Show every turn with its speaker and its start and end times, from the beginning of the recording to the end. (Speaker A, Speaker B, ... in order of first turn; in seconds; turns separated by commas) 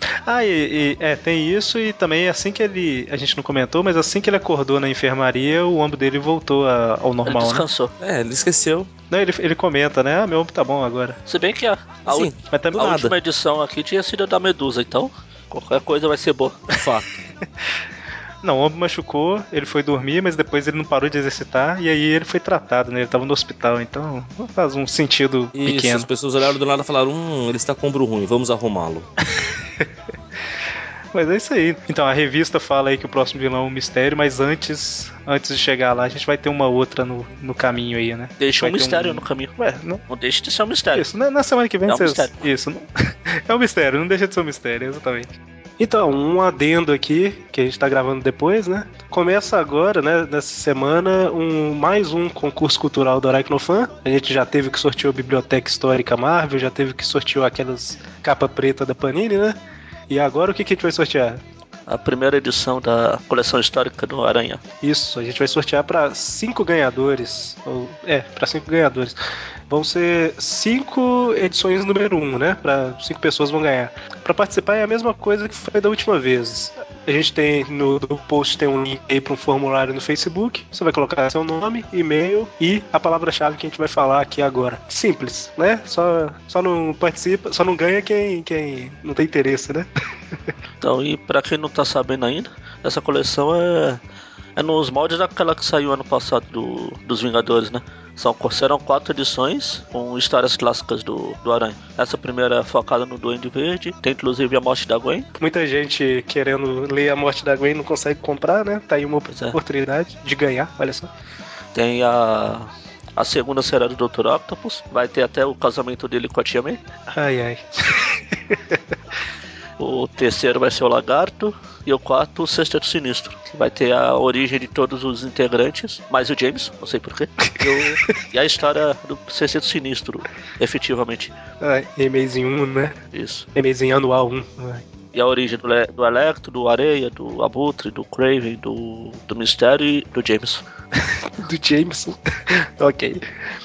Speaker A: 0.3-7.7, Speaker B: 7.2-7.9, Speaker C: 8.0-8.9, Speaker A: 9.1-11.2, Speaker B: 11.3-16.6, Speaker C: 12.1-13.2, Speaker A: 12.5-12.9, Speaker C: 16.7-17.1, Speaker A: 18.4-26.1, Speaker C: 25.5-29.1, Speaker A: 29.4-29.9, Speaker A: 31.1-40.0, Speaker B: 38.4-39.5, Speaker B: 40.1-41.1, Speaker A: 40.9-59.6, Speaker B: 41.9-42.4, Speaker A: 60.1-61.4, Speaker B: 61.9-64.6, Speaker A: 64.8-69.2, Speaker A: 69.7-89.9, Speaker B: 90.8-94.0, Speaker B: 94.6-105.3, Speaker A: 105.4-111.1, Speaker B: 109.3-109.6, Speaker B: 111.7-116.8, Speaker A: 117.1-118.8, Speaker B: 119.8-131.3, Speaker A: 131.6-133.0, Speaker B: 133.1-133.5, Speaker A: 133.6-134.8, Speaker B: 135.1-140.6, Speaker A: 141.2-143.2